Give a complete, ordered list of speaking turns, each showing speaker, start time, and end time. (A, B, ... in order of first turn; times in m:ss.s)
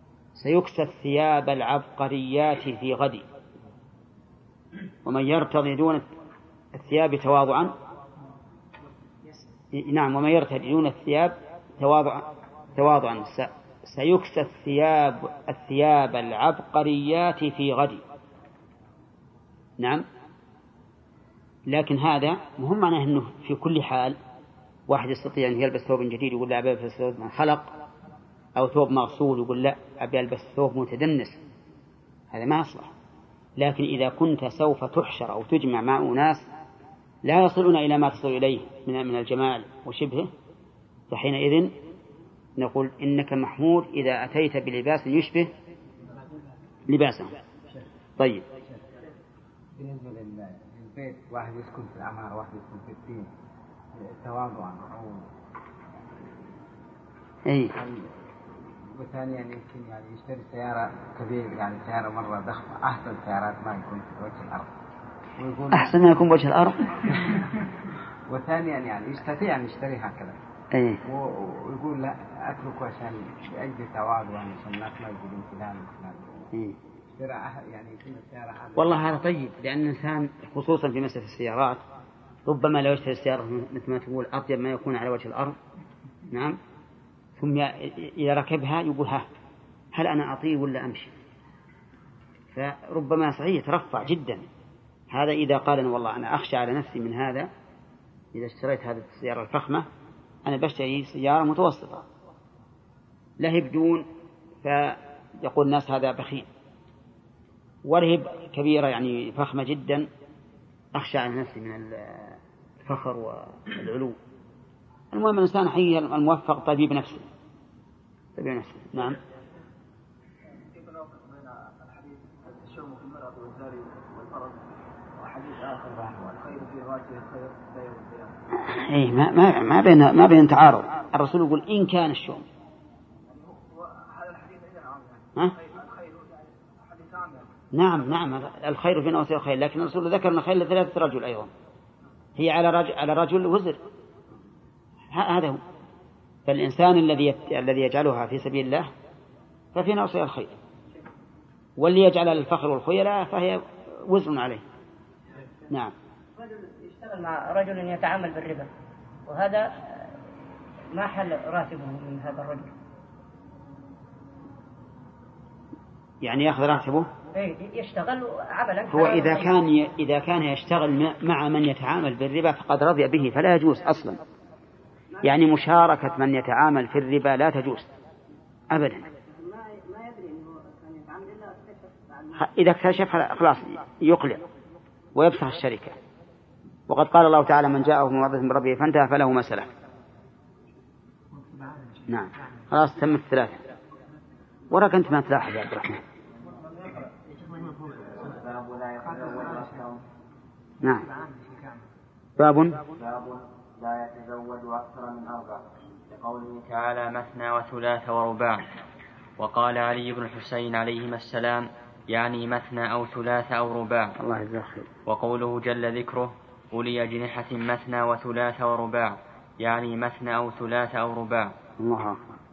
0:00.4-0:03.2 A
0:05.0-0:06.0 A
0:06.7-0:07.7 A
0:09.7-0:18.0 A
0:19.8-0:20.0 A
0:21.7-0:24.2 A
0:24.9-0:27.7 A
0:28.6-0:31.4 A
0:32.3-0:32.9 A
0:33.6-0:36.4 A
0:37.2-0:40.3 A
0:41.1-0:41.7 A
0:42.6-0:45.5 A
0:46.9-0:47.3 A
0:49.8-0:53.3 B
0:54.0-0:55.3 B
0:57.5-0:57.7 A
0:57.8-0:58.2 B
0:58.9-1:04.7 B
1:05.4-1:06.0 B
1:05.7-1:07.3 A
1:08.3-1:10.4 B
1:10.7-1:11.0 A
1:11.0-1:16.5 B
1:17.1-1:19.1 B
1:18.8-1:21.8 A
1:22.5-1:25.6 A
1:26.3-1:26.6 A
1:27.4-1:29.3 A
1:29.9-1:31.1 A
1:32.6-1:34.4 A
1:35.1-1:37.5 A
1:38.3-1:39.9 A
1:40.4-1:42.0 A
1:43.4-1:44.1 A
1:44.6-1:46.5 A
1:47.9-1:50.1 A
1:50.9-1:54.2 A
1:55.1-1:57.3 A
1:58.4-1:59.2 A
2:00.8-2:04.6 C
2:05.2-2:08.3 C
2:08.6-2:12.5 A
2:13.3-2:16.3 C
2:16.9-2:17.4 C
2:17.7-2:21.5 A
2:22.4-2:23.8 A
2:25.1-2:25.6 A
2:26.5-2:28.9 A
2:29.8-2:30.6 A
2:31.8-2:34.6 A
2:36.4-2:38.7 D
2:39.3-2:40.1 D
2:40.9-2:42.7 D
2:46.2-2:47.1 A
2:47.3-2:49.5 D
2:48.9-2:54.2 A
2:55.2-2:57.9 A
2:58.7-2:59.1 A
2:59.4-3:02.3 D
3:02.4-3:04.4 A
3:05.2-3:06.0 A
3:06.9-3:09.7 A
3:12.1-3:13.6 A
3:14.7-3:16.0 A
3:16.5-3:20.0 C
3:22.4-3:22.8 A
3:22.9-3:26.6 C
3:26.6-3:28.7 E
3:29.4-3:34.1 E
3:34.2-3:34.9 A
3:35.1-3:41.5 E
3:41.8-3:42.2 A